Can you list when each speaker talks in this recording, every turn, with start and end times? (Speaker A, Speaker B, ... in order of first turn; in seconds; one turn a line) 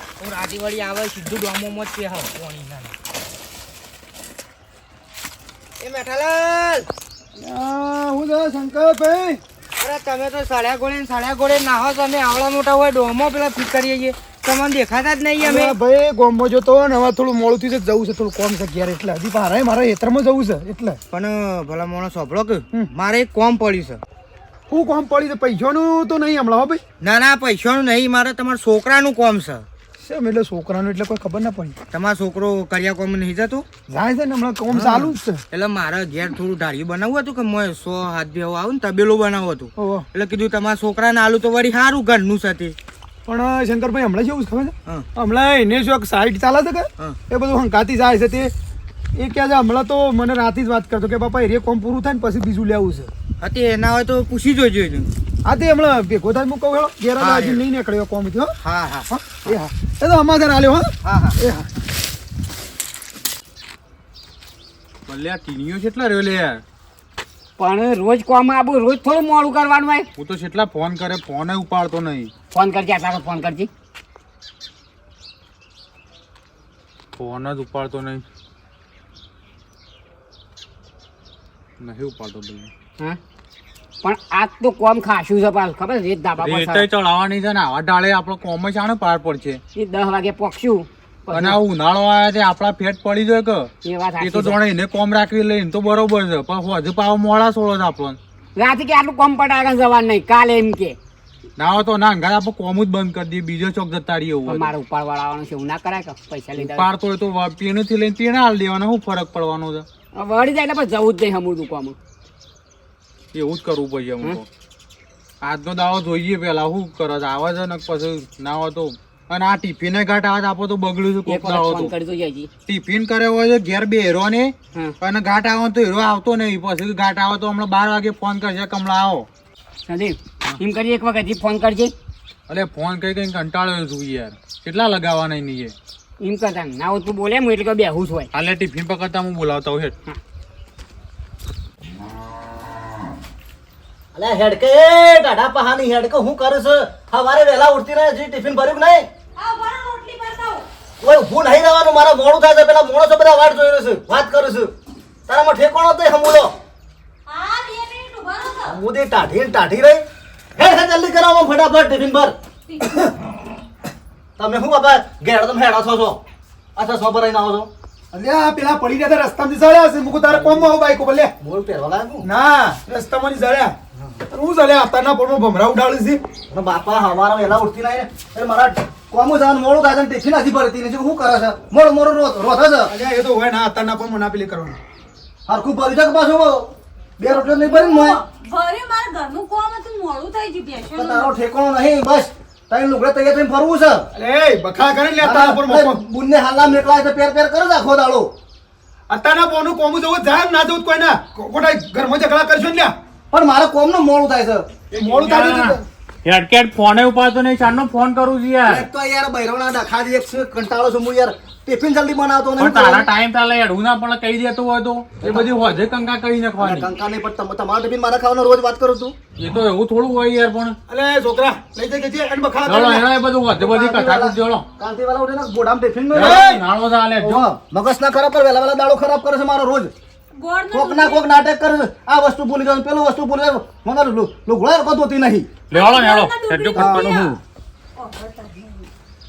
Speaker A: 0.2-2.9
Speaker A: 5.8-6.9
Speaker B: 7.4-9.4
Speaker A: 9.8-15.7
Speaker B: 15.4-21.0
Speaker A: 21.1-24.0
Speaker B: 24.7-26.8
Speaker A: 27.0-29.6
Speaker B: 30.0-31.7
Speaker A: 31.9-33.7
Speaker B: 33.9-35.4
Speaker A: 34.7-42.8
Speaker B: 39.8-40.0
Speaker B: 43.3-48.5
Speaker B: 49.1-53.1
Speaker A: 53.4-55.1
Speaker B: 55.4-58.5
Speaker A: 57.2-57.6
Speaker A: 58.6-59.1
Speaker B: 59.1-61.6
Speaker A: 61.0-61.3
Speaker C: 65.1-66.6
Speaker D: 67.6-70.1
Speaker C: 70.2-72.3
Speaker D: 72.5-73.7
Speaker C: 77.2-78.2
Speaker C: 81.8-82.7
Speaker D: 84.0-86.8
Speaker C: 86.4-89.6
Speaker D: 89.8-91.6
Speaker C: 91.3-98.2
Speaker D: 93.9-94.6
Speaker D: 98.6-101.0
Speaker C: 101.6-104.7
Speaker D: 104.5-106.9
Speaker C: 106.6-109.8
Speaker D: 110.2-112.0
Speaker C: 113.3-114.5
Speaker C: 115.4-121.9
Speaker D: 121.3-122.5
Speaker C: 122.7-129.3
Speaker D: 129.9-131.9
Speaker C: 132.5-135.7
Speaker D: 136.2-138.3
Speaker C: 138.3-139.9
Speaker E: 144.1-149.0
Speaker F: 149.4-150.6
Speaker E: 151.0-154.7
Speaker E: 155.3-156.5
Speaker F: 157.3-158.6
Speaker E: 158.6-160.0
Speaker E: 160.6-162.3
Speaker E: 164.4-166.2
Speaker E: 166.8-167.7
Speaker B: 168.1-171.3
Speaker E: 170.3-170.7
Speaker E: 171.4-172.3
Speaker B: 172.2-173.7
Speaker B: 174.3-176.2
Speaker E: 176.5-182.9
Speaker B: 182.9-184.8
Speaker E: 185.5-188.2
Speaker F: 187.7-191.3
Speaker E: 190.9-194.1
Speaker B: 194.1-196.0
Speaker E: 195.2-198.3
Speaker B: 199.1-202.9
Speaker E: 203.3-204.8
Speaker B: 204.9-205.8
Speaker C: 204.9-208.8
Speaker E: 208.6-213.1
Speaker C: 212.6-216.9
Speaker E: 215.2-215.5
Speaker E: 216.6-219.2
Speaker C: 219.4-220.8
Speaker B: 220.9-223.1
Speaker C: 222.6-224.6
Speaker E: 223.6-226.4
Speaker C: 226.1-227.5
Speaker B: 226.2-226.6
Speaker E: 227.2-229.9
Speaker F: 230.3-231.2
Speaker E: 230.7-235.6
Speaker C: 235.7-237.4
Speaker F: 235.7-237.2
Speaker B: 236.7-237.2
Speaker F: 238.0-238.8